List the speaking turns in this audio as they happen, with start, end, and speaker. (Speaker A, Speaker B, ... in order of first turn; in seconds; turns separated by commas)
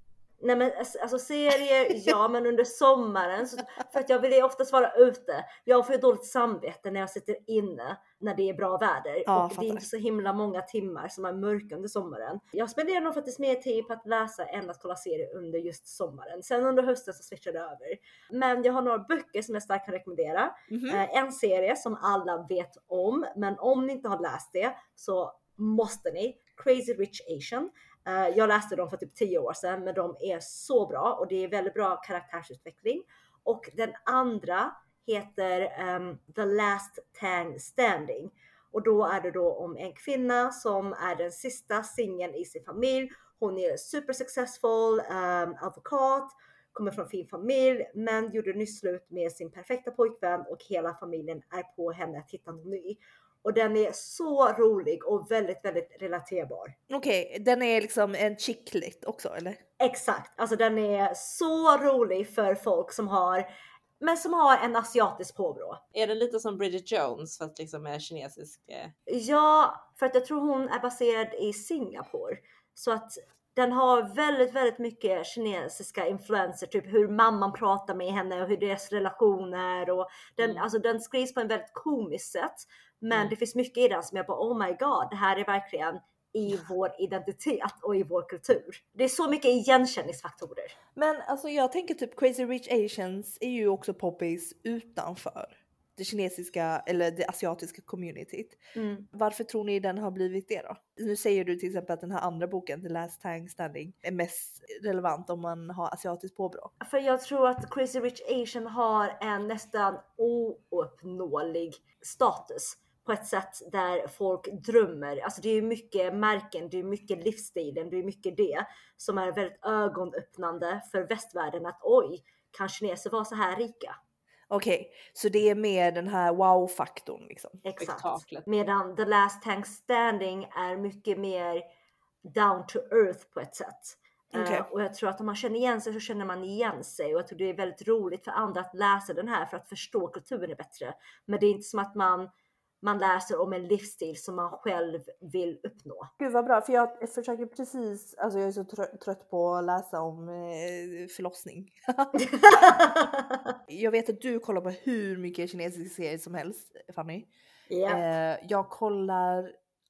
Speaker A: 0.4-56.8, Speaker B: 9.3-9.9, Speaker B: 20.7-21.0, Speaker B: 56.9-59.6, Speaker A: 59.8-63.5, Speaker A: 64.0-65.8, Speaker C: 65.9-68.9, Speaker A: 69.1-90.8, Speaker B: 91.0-98.6, Speaker A: 98.8-99.1, Speaker B: 99.1-106.7, Speaker A: 106.8-124.0, Speaker B: 124.5-127.6, Speaker A: 127.6-131.6, Speaker C: 127.8-128.4, Speaker A: 132.2-142.3, Speaker B: 134.3-134.7, Speaker A: 142.8-146.1, Speaker B: 146.2-152.8, Speaker A: 152.2-153.4, Speaker B: 153.7-157.3, Speaker A: 157.7-158.0, Speaker B: 157.9-159.5